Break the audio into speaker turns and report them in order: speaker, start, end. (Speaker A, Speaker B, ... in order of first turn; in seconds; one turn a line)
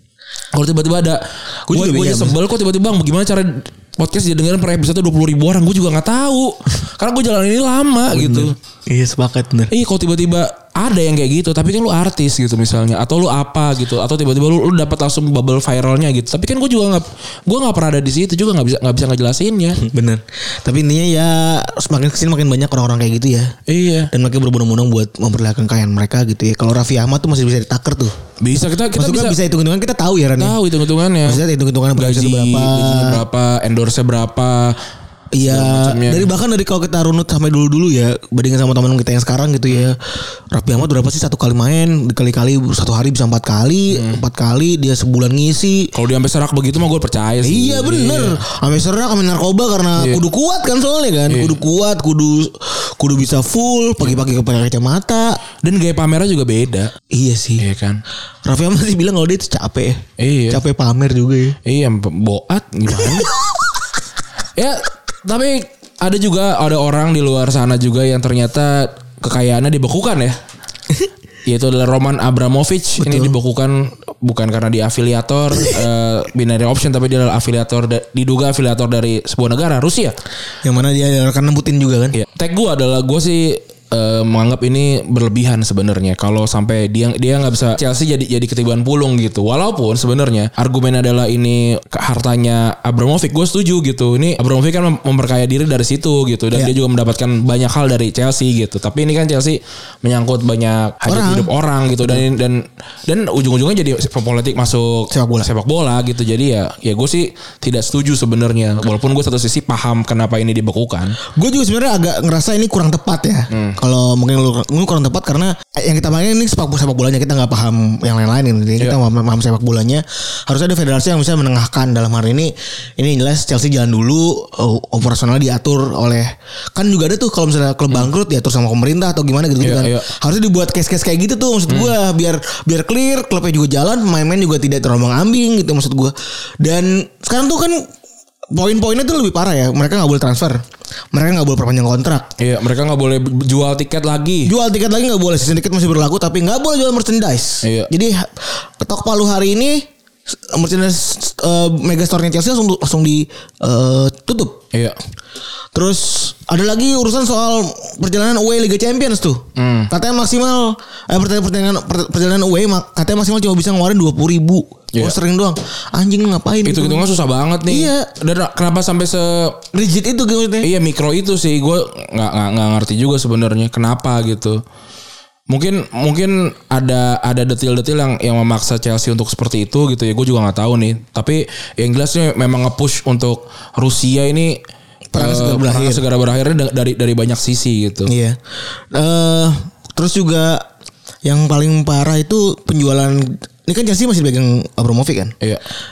Speaker A: 0.5-8.6
Speaker B: 1.7-2.4
Speaker B: 8.1-9.7
Speaker A: 9.7-19.8
Speaker B: 19.8-23.6
Speaker A: 23.7-24.1
Speaker B: 24.1-28.2
Speaker A: 28.4-29.4
Speaker B: 28.9-30.6
Speaker A: 30.4-31.4
Speaker B: 31.2-33.2
Speaker A: 31.9-34.8
Speaker B: 35.3-45.9
Speaker A: 35.4-36.3
Speaker A: 43.9-44.2
Speaker A: 45.9-48.4
Speaker B: 47.4-55.4
Speaker A: 50.0-50.2
Speaker A: 51.3-51.6
Speaker A: 55.6-56.9
Speaker B: 57.1-57.6
Speaker A: 57.6-58.0
Speaker B: 58.4-61.6
Speaker A: 60.2-60.6
Speaker A: 61.6-63.3
Speaker A: 64.6-70.4
Speaker A: 71.5-80.1
Speaker B: 73.0-73.3
Speaker B: 80.6-82.1
Speaker A: 82.1-111.2
Speaker B: 101.0-101.5
Speaker B: 105.1-105.5
Speaker B: 111.3-137.8
Speaker A: 113.5-113.8
Speaker A: 129.6-130.1
Speaker A: 131.7-131.9
Speaker B: 138.5-140.6
Speaker B: 141.1-142.3
Speaker A: 142.4-144.5
Speaker B: 144.4-154.6
Speaker A: 147.6-147.9
Speaker B: 155.7-167.1
Speaker A: 159.6-159.9
Speaker A: 166.6-169.6
Speaker B: 167.7-168.1
Speaker B: 169.7-170.7
Speaker A: 170.6-174.6
Speaker A: 175.5-184.6
Speaker B: 185.1-186.0
Speaker A: 185.2-188.1
Speaker B: 188.1-188.4
Speaker B: 188.9-190.7
Speaker B: 191.2-195.3